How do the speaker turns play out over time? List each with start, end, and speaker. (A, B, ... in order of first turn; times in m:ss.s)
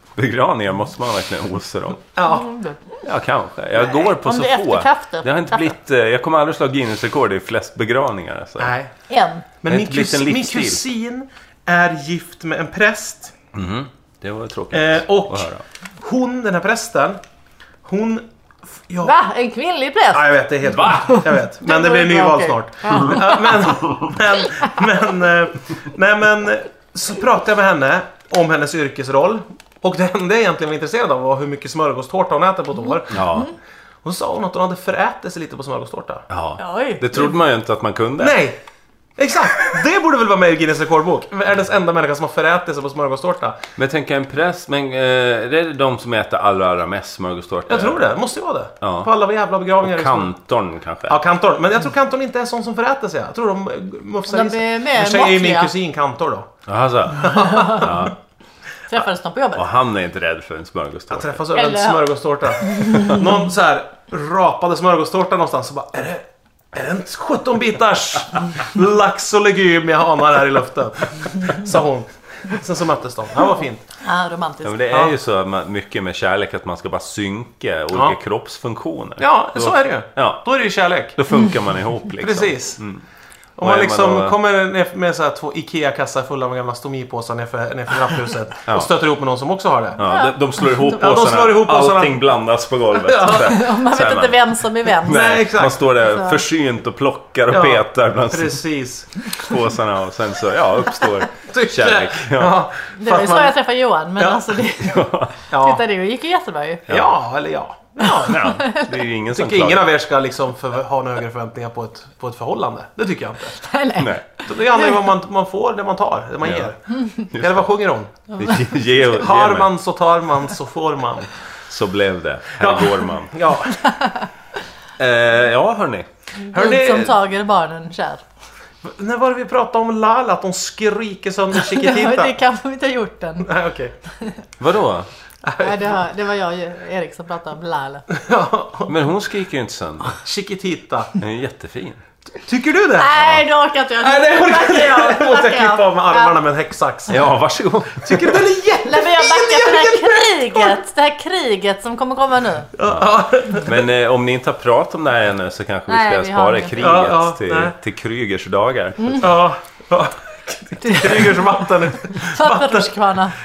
0:00.2-0:02.0 A
0:02.2-0:02.5 B
0:02.3-0:03.0 C
0:03.0-0:08.7 A
0:03.8-0:05.7 C
0:08.6-0:08.9 B
0:09.1-0:09.5 C
0:09.6-0:13.3 B
0:09.7-0:10.8 A
0:13.5-0:15.6 A
0:14.7-0:15.5 B
0:16.0-0:17.2 B
0:17.8-0:18.2 B
0:18.9-0:19.1 B
0:19.0-0:23.7 C
0:20.1-0:33.4 B
0:20.7-0:21.2 A
0:32.9-0:33.5 C
0:33.1-0:33.5 A
0:34.0-0:36.3 B
0:36.3-0:38.4 A
0:36.6-0:37.3 C
0:38.2-0:38.6 B
0:39.2-0:43.6 B
0:43.8-0:48.1 A
0:47.7-0:50.3 B
0:48.8-0:49.1 A
0:49.8-0:51.2 A
0:51.1-0:56.5 B
0:54.3-0:55.7 C
0:56.7-0:58.2 A
0:57.2-0:58.0 B
0:57.3-0:57.9 C
0:58.9-0:59.7 C
0:59.6-1:01.4 A
1:01.1-1:13.8 B
1:01.5-1:02.1 C
1:02.6-1:03.4 C
1:14.0-1:14.8 C
1:14.6-1:20.4 A
1:17.9-1:18.2 B
1:19.2-1:21.2 B
1:21.2-1:23.0 A
1:22.2-1:22.8 B
1:23.6-1:30.0 B
1:23.6-1:24.4 A
1:30.0-1:38.6 A
1:30.0-1:30.4 C
1:30.9-1:32.2 B
1:33.0-1:33.5 B
1:33.4-1:35.3 C
1:35.0-1:35.8 B
1:36.0-1:36.4 C
1:37.5-1:39.4 B
1:39.2-1:42.6 A
1:41.5-1:43.6 B
1:42.9-1:46.9 C
1:44.2-1:44.5 B
1:44.8-1:45.4 A
1:45.5-1:45.8 B
1:46.9-1:48.4 B
1:48.1-1:49.9 A
1:48.2-1:48.9 C
1:49.3-1:53.6 B
1:53.6-1:55.0 C
1:54.0-1:54.2 A
1:54.5-1:58.3 B
1:56.4-1:56.7 A
1:57.3-1:57.6 A
1:58.4-1:59.7 A
1:59.0-2:01.3 B
2:01.7-2:03.3 A
2:02.6-2:03.9 B
2:03.9-2:04.2 C
2:05.0-2:06.1 A
2:06.5-2:08.2 C
2:06.5-2:07.2 B
2:08.8-2:12.4 B
2:11.5-2:13.5 C
2:13.4-2:13.9 B
2:14.6-2:15.1 A
2:15.4-2:16.0 B
2:15.6-2:18.0 C
2:18.1-2:19.0 B
2:18.9-2:20.2 A
2:20.1-2:21.2 B
2:21.2-2:22.0 A
2:22.4-2:23.2 B
2:23.0-2:26.4 C
2:24.0-2:27.3 B
2:27.1-2:28.4 A
2:28.0-2:30.8 B
2:28.8-2:32.7 C
2:32.8-2:33.8 B
2:32.8-2:33.1 A
2:33.6-2:39.3 A
2:35.9-2:36.9 C
2:36.8-2:37.7 B
2:39.0-2:39.3 C
2:39.2-2:43.0 B
2:40.8-2:41.5 C
2:42.1-2:43.4 C